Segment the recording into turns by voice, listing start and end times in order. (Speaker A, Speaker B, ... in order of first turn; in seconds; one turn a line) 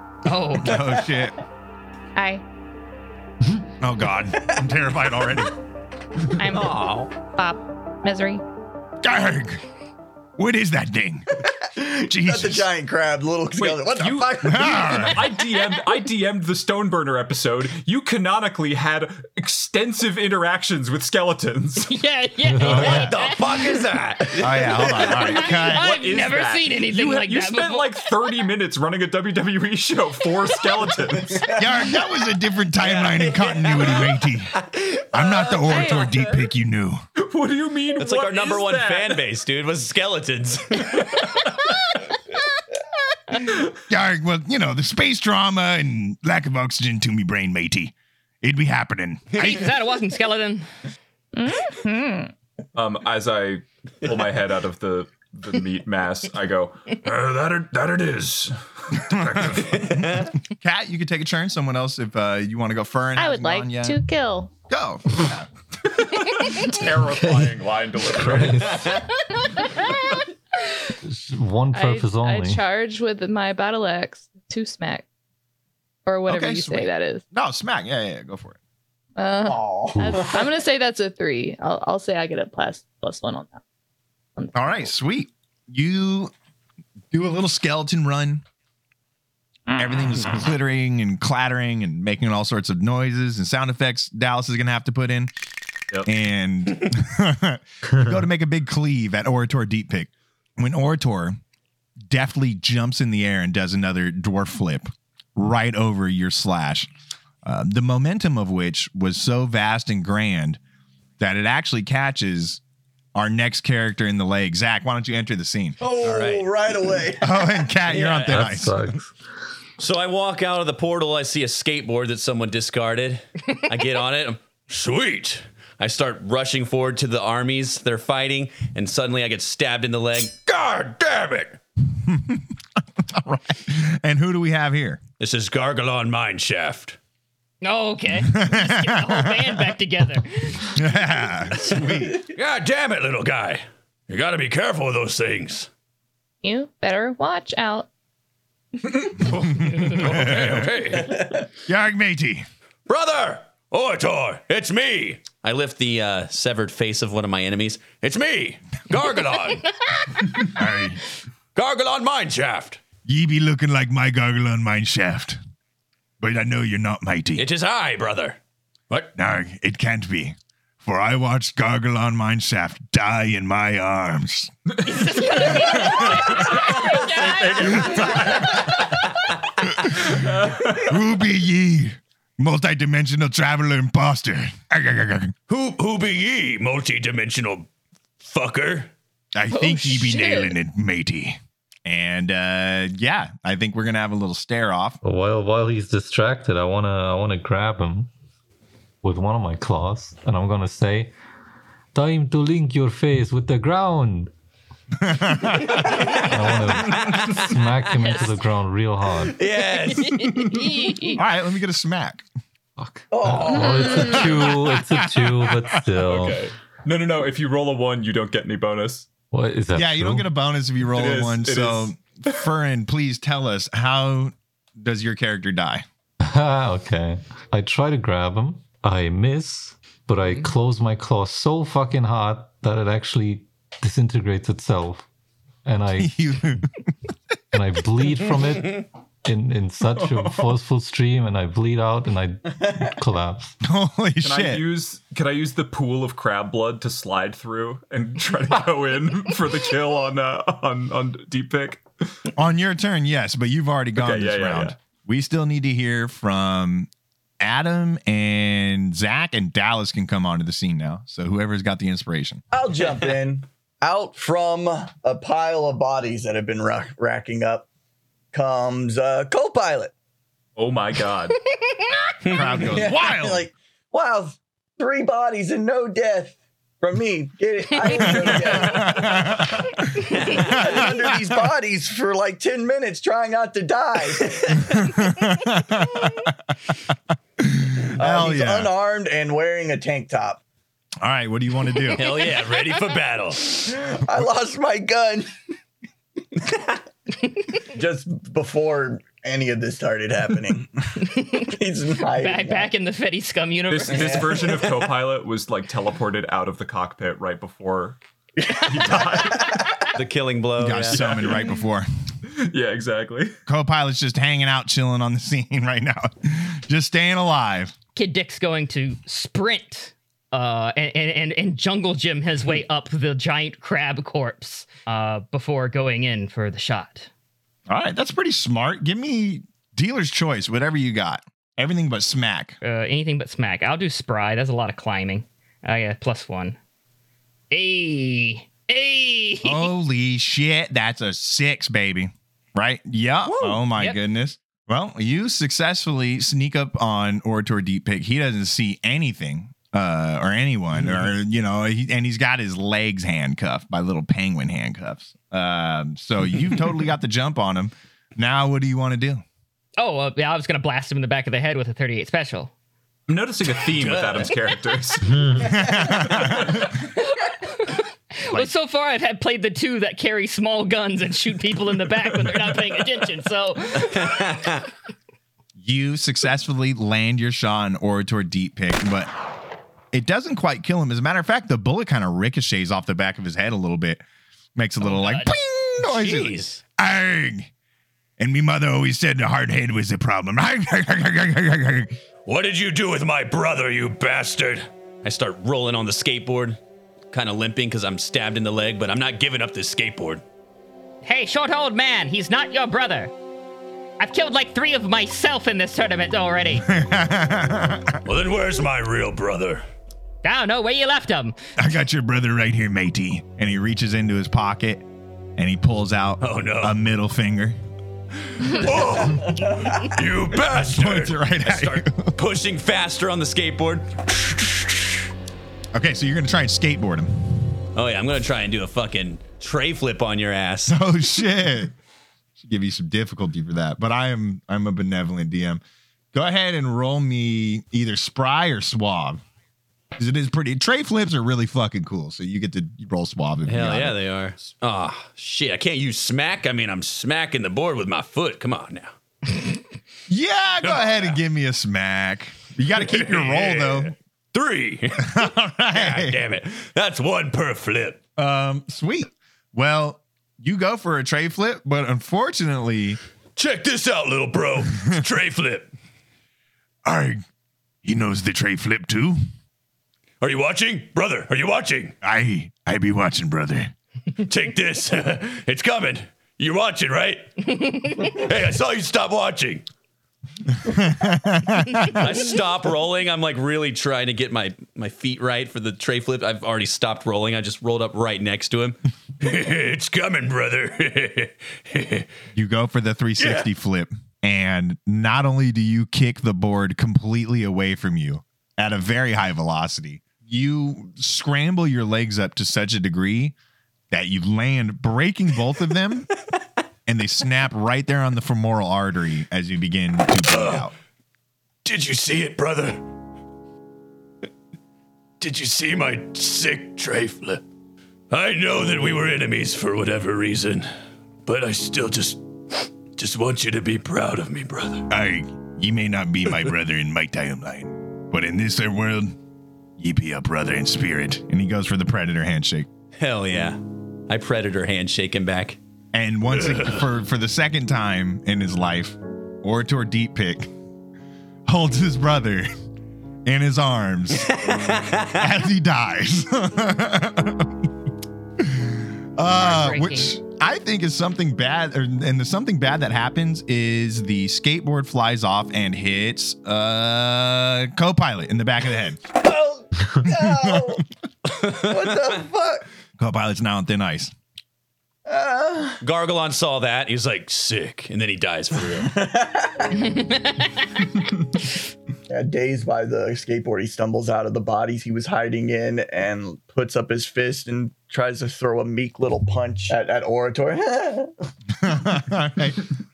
Speaker A: 0.2-0.8
Speaker B: 0.5-1.4
Speaker C: 2.1-2.4
Speaker B: 3.8-5.5
Speaker C: 6.4-8.4
Speaker D: 6.5-7.1
Speaker B: 9.0-9.6
Speaker B: 10.4-12.7
Speaker E: 11.7-15.1
Speaker F: 13.6-21.9
Speaker B: 14.4-15.2
Speaker A: 21.8-23.6
Speaker G: 22.4-22.9
Speaker F: 22.7-23.0
Speaker D: 22.7-24.8
Speaker B: 24.4-25.9
Speaker A: 25.0-28.1
Speaker F: 25.2-31.4
Speaker B: 31.6-37.0
Speaker D: 32.8-36.0
Speaker C: 35.7-36.2
Speaker F: 37.2-39.2
Speaker D: 38.0-41.0
Speaker F: 41.0-41.7
Speaker B: 43.9-49.6
Speaker A: 49.3-50.6
Speaker C: 51.3-52.3
Speaker F: 52.7-56.9
Speaker H: 57.0-59.9
Speaker B: 59.1-64.0
Speaker D: 59.8-60.3
Speaker C: 63.1-64.5
Speaker B: 64.7-65.5
Speaker F: 66.1-68.8
Speaker G: 67.1-67.5
Speaker G: 68.1-69.0
Speaker D: 68.6-69.0
Speaker G: 71.0-72.6
Speaker C: 71.7-75.0
Speaker C: 76.0-77.2
Speaker B: 76.3-78.5
Speaker C: 79.2-83.6
Speaker E: 79.5-80.4
Speaker G: 80.0-80.2
Speaker C: 84.4-84.9
Speaker B: 84.5-86.3
Speaker B: 87.1-88.4
Speaker B: 89.8-95.3
Speaker B: 96.0-101.4
Speaker B: 102.1-106.9
Speaker B: 107.4-110.6
Speaker B: 111.2-112.6
Speaker B: 113.1-115.8
Speaker E: 115.8-117.7
Speaker D: 116.0-116.5
Speaker B: 117.2-118.9
Speaker D: 117.9-118.6
Speaker G: 118.3-119.1
Speaker D: 119.8-131.6
Speaker B: 131.9-135.0
Speaker D: 135.2-137.0
Speaker A: 137.6-140.8
Speaker B: 138.2-139.7
Speaker B: 140.7-142.3
Speaker D: 142.3-145.7
Speaker C: 146.4-147.9
Speaker D: 149.1-151.3
Speaker B: 149.2-150.8
Speaker B: 151.7-152.4
Speaker D: 152.9-159.7
Speaker B: 160.5-161.0
Speaker D: 161.5-162.8
Speaker B: 163.0-165.4
Speaker B: 166.2-167.4
Speaker D: 167.4-168.4
Speaker B: 169.2-174.5
Speaker A: 174.8-178.3
Speaker F: 174.9-178.8
Speaker B: 179.8-180.2
Speaker F: 180.0-180.9
Speaker B: 180.7-185.3
Speaker D: 185.5-187.7
Speaker D: 188.2-188.9
Speaker B: 189.3-195.0
Speaker C: 189.5-190.5
Speaker G: 195.0-198.1
Speaker G: 199.0-201.1
Speaker G: 201.9-204.3
Speaker B: 205.0-206.0
Speaker G: 205.9-209.4
Speaker D: 206.9-207.4
Speaker D: 209.3-210.6
Speaker A: 209.9-211.1
Speaker B: 211.1-212.2
Speaker G: 212.8-216.4
Speaker E: 213.1-214.6
Speaker C: 213.7-214.0
Speaker B: 214.1-215.8
Speaker F: 216.0-219.1
Speaker G: 219.3-220.3
Speaker B: 219.7-225.8
Speaker F: 220.8-222.5
Speaker G: 226.2-235.1
Speaker G: 235.6-236.6
Speaker B: 236.0-236.7
Speaker G: 237.5-243.6
Speaker F: 239.9-240.6
Speaker E: 242.6-242.9
Speaker B: 243.6-244.6
Speaker F: 244.2-251.8
Speaker B: 252.3-256.9
Speaker F: 253.9-254.8
Speaker B: 257.4-262.4
Speaker E: 262.5-267.7
Speaker E: 268.3-269.9
Speaker F: 270.6-271.4
Speaker D: 272.2-272.6
Speaker B: 272.3-273.4
Speaker E: 272.6-284.8
Speaker B: 277.9-280.9
Speaker B: 284.6-286.4
Speaker B: 287.4-288.7
Speaker E: 288.0-290.4
Speaker B: 291.0-292.1
Speaker D: 291.9-293.6
Speaker E: 293.4-295.3
Speaker E: 297.5-302.7
Speaker A: 302.1-304.3
Speaker F: 303.7-308.0
Speaker E: 303.9-304.7
Speaker E: 308.4-309.8
Speaker F: 308.6-309.6
Speaker D: 309.9-311.1
Speaker B: 310.6-311.9
Speaker F: 310.9-311.5
Speaker F: 312.2-313.4
Speaker B: 313.5-317.7
Speaker A: 317.9-327.1
Speaker B: 327.7-332.6
Speaker A: 332.6-336.6
Speaker A: 337.5-339.7
Speaker B: 339.4-359.2
Speaker A: 359.8-362.5
Speaker F: 363.1-365.2
Speaker D: 363.6-364.6
Speaker B: 365.4-366.5
Speaker F: 365.9-366.7
Speaker A: 367.6-374.3
Speaker D: 374.1-374.6
Speaker B: 375.6-379.1
Speaker B: 379.9-384.0
Speaker B: 384.6-387.5
Speaker A: 384.8-385.3
Speaker D: 385.8-386.6
Speaker B: 388.2-391.9
Speaker D: 392.2-396.6
Speaker D: 397.1-400.2
Speaker A: 401.0-403.1
Speaker A: 404.0-406.6
Speaker B: 406.6-408.0
Speaker D: 408.0-409.6
Speaker A: 410.2-411.4
Speaker B: 411.6-414.8
Speaker B: 415.4-417.6
Speaker D: 416.2-416.8
Speaker D: 418.4-425.0
Speaker E: 419.2-419.7
Speaker B: 420.5-422.1
Speaker B: 425.7-427.6
Speaker D: 427.7-430.8
Speaker B: 430.7-431.7
Speaker B: 432.4-435.6
Speaker B: 436.1-439.2
Speaker B: 440.0-444.0
Speaker D: 443.4-448.9
Speaker B: 450.1-453.9
Speaker D: 450.6-451.1
Speaker D: 452.8-458.0
Speaker B: 455.0-456.2
Speaker B: 458.2-463.0
Speaker D: 463.4-465.7
Speaker B: 466.8-467.2
Speaker B: 467.8-469.2
Speaker D: 470.2-471.9
Speaker B: 472.0-473.7
Speaker D: 474.2-479.6
Speaker B: 480.6-482.1
Speaker D: 481.9-492.1
Speaker B: 492.3-503.4
Speaker D: 493.2-493.5
Speaker B: 503.9-506.1
Speaker B: 506.9-510.7
Speaker D: 510.2-510.7
Speaker D: 511.6-512.8
Speaker D: 515.2-517.4
Speaker D: 518.1-520.7
Speaker D: 521.2-524.9
Speaker B: 524.9-529.1
Speaker B: 529.8-532.7
Speaker D: 533.0-535.6
Speaker B: 535.9-540.5
Speaker B: 541.5-542.5
Speaker B: 543.2-544.5
Speaker D: 544.3-545.1
Speaker B: 545.0-547.7
Speaker B: 548.4-559.0
Speaker A: 549.3-550.1
Speaker E: 559.2-560.8
Speaker B: 560.0-560.8
Speaker E: 561.4-562.6
Speaker B: 563.0-564.1
Speaker E: 565.0-565.8
Speaker D: 565.8-568.9
Speaker E: 568.7-570.0
Speaker E: 572.1-581.1
Speaker B: 581.6-582.7